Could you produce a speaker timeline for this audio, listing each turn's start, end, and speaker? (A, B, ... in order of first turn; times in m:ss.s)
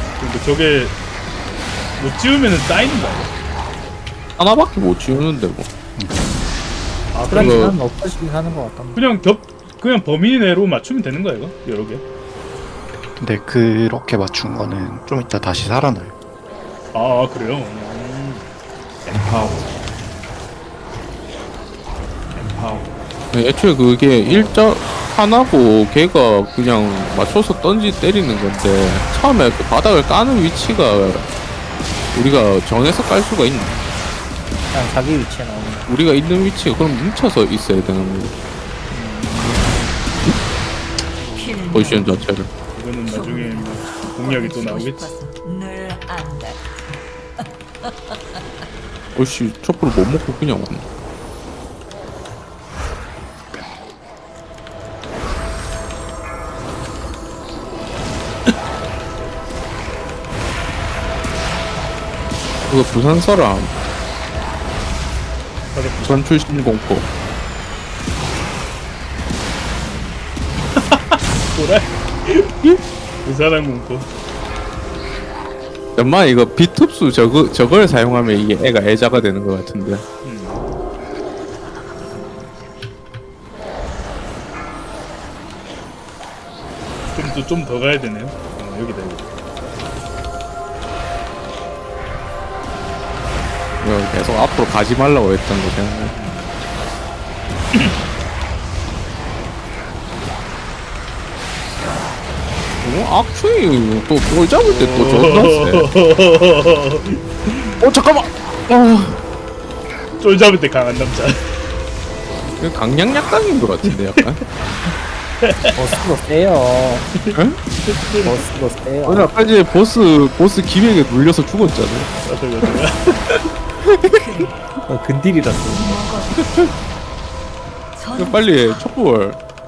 0:00.2-0:00.9 A
0:02.0-0:03.3 A
0:04.4-0:05.7 B
0:06.0-0:06.2 C
0:07.1-0:07.7 A
0:07.2-0:09.0 D
0:07.3-0:07.7 B
0:08.9-0:12.0 A
0:13.2-0:16.1 C
0:16.9-0:18.5 A
0:23.3-0:31.3 B
0:24.2-0:24.7 A
0:32.1-0:33.7 B
0:33.6-0:33.9 A
0:34.7-0:35.9 D
0:35.9-0:38.4 B
0:38.9-0:39.9 A
0:41.3-0:42.3 E
0:41.7-0:42.5 B
0:42.7-0:45.1 A
0:43.1-0:48.5 E
0:49.2-0:50.8 B
1:02.7-1:03.7 B
1:05.7-1:06.6 A
1:06.0-1:07.1 B
1:10.7-1:14.1 A
1:16.0-1:20.0 B
1:20.2-1:20.7 A
1:27.1-1:29.3 A
1:33.8-1:36.1 B
1:36.1-1:36.6 A
1:42.8-1:45.9 B
1:44.6-1:47.8 A
1:47.8-1:49.2 B
1:50.2-1:51.6 A
1:52.6-1:54.4 B
1:53.8-1:54.4 A
1:55.4-1:55.8 A
1:55.7-1:57.1 D
1:57.1-1:58.4 A
1:57.3-1:57.6 B
1:58.2-1:59.3 D
1:59.1-2:02.1 B
2:02.2-2:03.4 A
2:04.0-2:04.6 E
2:04.9-2:06.0 D
2:05.6-2:06.8 E
2:07.9-2:08.8 E
2:08.2-2:09.4 B